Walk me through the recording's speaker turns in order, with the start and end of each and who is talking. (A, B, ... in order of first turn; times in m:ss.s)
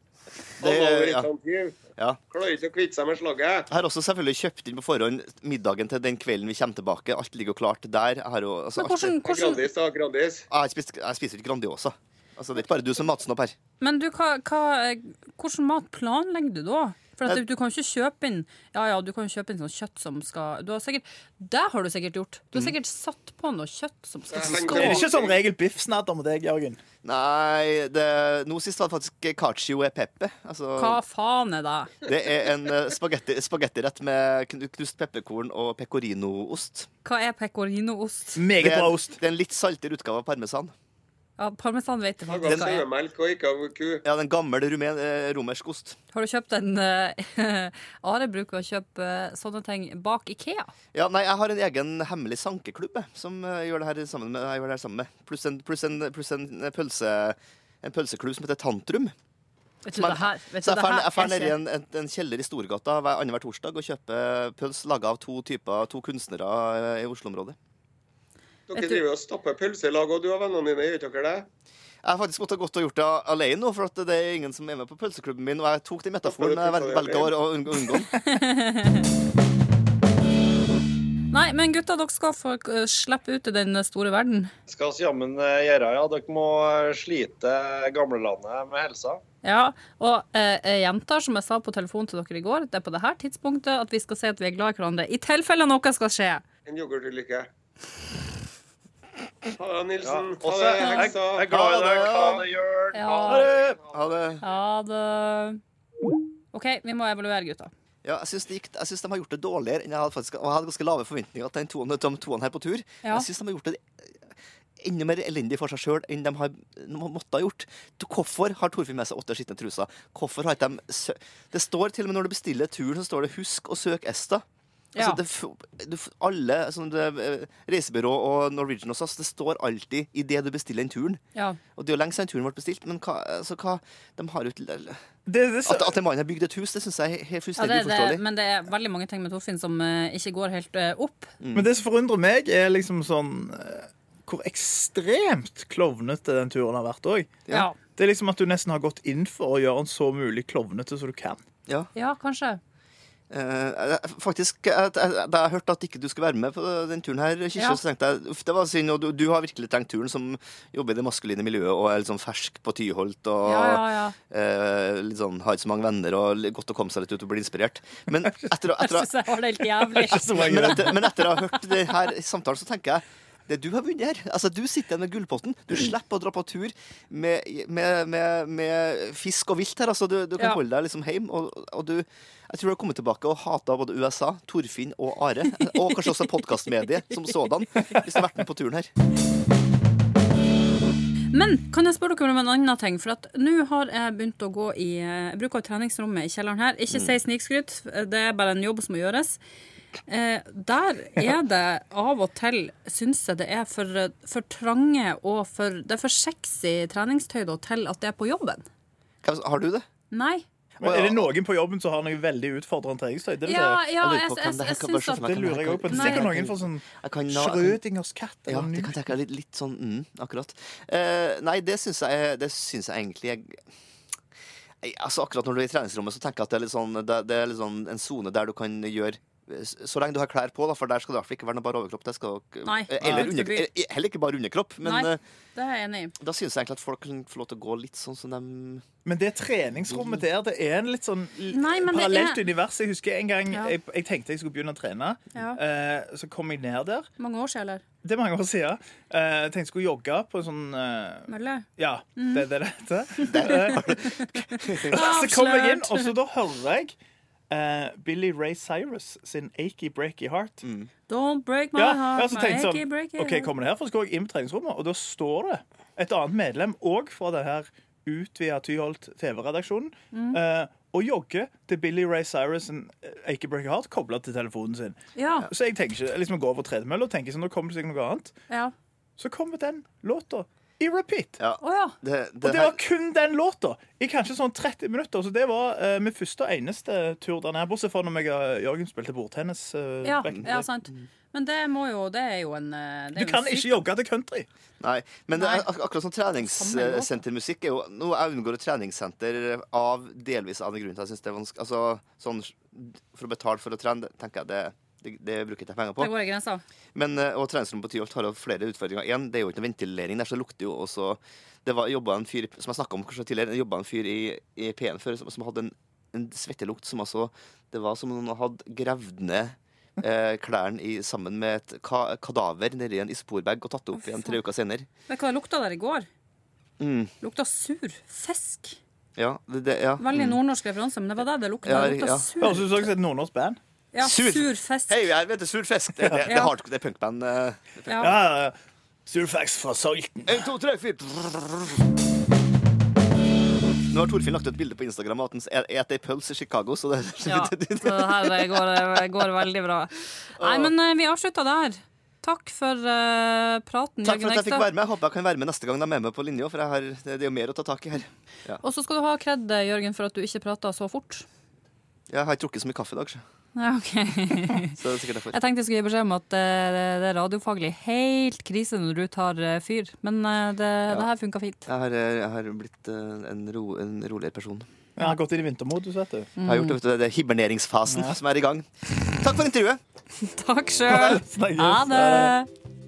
0:00.6-0:01.3 A
0:00.6-0:01.8 B
0:02.3-0:03.7 B
0:03.7-0:09.2 A
0:08.8-0:09.6 C
0:09.2-0:10.4 B
0:10.5-0:13.6 A
0:13.8-0:25.0 C
0:24.3-0:25.4 B
0:24.7-0:26.8 D
0:27.0-0:31.0 A
0:30.8-0:31.9 C
0:32.0-0:36.9 A
0:37.0-0:38.4 C
0:38.4-0:39.2 D
0:38.6-0:40.7 A
0:41.4-0:42.9 C
0:42.3-0:44.0 B
0:42.4-0:42.8 A
0:44.0-0:46.0 A
0:46.1-0:50.7 C
0:50.9-0:59.1 A
0:59.8-1:01.6 C
0:59.9-1:07.6 A
1:08.7-1:11.5 B
1:08.8-1:09.0 C
1:12.0-1:18.1 A
1:16.2-1:17.3 B
1:18.2-1:19.1 C
1:21.3-1:24.5 C
1:24.7-1:29.2 E
1:29.4-1:36.4 C
1:36.7-1:37.5 B
1:39.5-1:42.4 B
1:40.0-1:43.8 E
1:40.8-1:41.1 C
1:41.5-1:42.4 A
1:42.9-1:43.5 C
1:43.3-1:43.8 B
1:43.9-1:44.4 A
1:44.4-1:45.6 C
1:46.5-1:47.7 C
1:48.0-1:53.9 A
1:54.8-2:04.4 A
2:04.9-2:05.2 C
2:05.0-2:11.2 A
2:11.8-2:15.0 A
2:15.3-2:15.9 D
2:15.6-2:18.2 A
2:17.6-2:21.3 C
2:21.4-2:21.7 A
2:21.6-2:31.4 D
2:27.5-2:27.8 C
2:31.9-2:32.6 C
2:33.3-2:49.1 A
2:43.4-2:44.2 C
2:48.7-2:51.9 C
2:50.0-2:50.9 D
2:50.2-3:08.9 A
3:11.3-3:19.4 C
3:20.1-3:28.7 C
3:29.2-3:29.8 A
3:30.1-3:30.4 C
3:30.8-3:31.3 A
3:30.8-3:33.9 D
3:33.4-3:35.4 C
3:34.0-3:37.8 A
3:35.2-3:38.9 D
3:35.9-3:36.3 C
3:38.5-3:43.6 A
3:44.8-3:55.2 A
3:52.6-3:53.7 C
3:53.0-3:53.3 D
3:54.8-3:56.2 C
3:56.2-3:58.8 A
3:59.0-4:07.1 D
4:01.5-4:02.4 C
4:07.2-4:07.8 C
4:08.0-4:14.1 D
4:11.3-4:12.5 C
4:13.2-4:14.3 C
4:13.3-4:15.0 A
4:14.8-4:16.9 D
4:14.9-4:16.1 C
4:17.5-4:20.6 D
4:20.6-4:20.9 A
4:21.1-4:23.5 C
4:21.8-4:38.3 D
4:30.1-4:30.4 C
4:35.2-4:35.5 C
4:39.2-4:41.4 D
4:41.4-4:42.8 A
4:41.6-4:41.9 C
4:42.4-4:50.6 D
4:50.0-4:53.8 C
4:53.2-4:54.5 D
4:54.8-5:06.1 A
4:55.4-4:55.6 C
4:56.4-4:57.2 C
5:06.0-5:06.6 C
5:06.9-5:24.9 A
5:24.0-5:24.4 C
5:25.1-5:26.1 C
5:26.8-5:27.1 A
5:27.2-5:28.8 C
5:29.2-5:30.4 A
5:30.0-5:32.7 C
5:31.6-5:32.3 A
5:32.4-5:33.6 D
5:33.9-5:35.0 C
5:34.0-5:38.1 A
5:36.0-5:36.3 D
5:36.2-5:36.5 C
5:37.9-5:38.2 C
5:38.0-5:38.5 D
5:39.1-5:40.4 D
5:40.3-5:41.7 A
5:43.9-5:49.2 A
5:47.2-5:54.7 C
5:50.4-5:50.7 A
5:54.0-5:58.6 A
5:58.6-6:01.2 C
6:02.1-6:03.2 A
6:03.6-6:04.8 C
6:04.7-6:05.4 A
6:05.3-6:11.7 C
6:11.6-6:14.7 A
6:15.0-6:16.3 D
6:16.4-6:16.8 C
6:16.4-6:19.8 A
6:17.9-6:18.2 D
6:20.2-6:22.5 C
6:20.9-6:22.4 D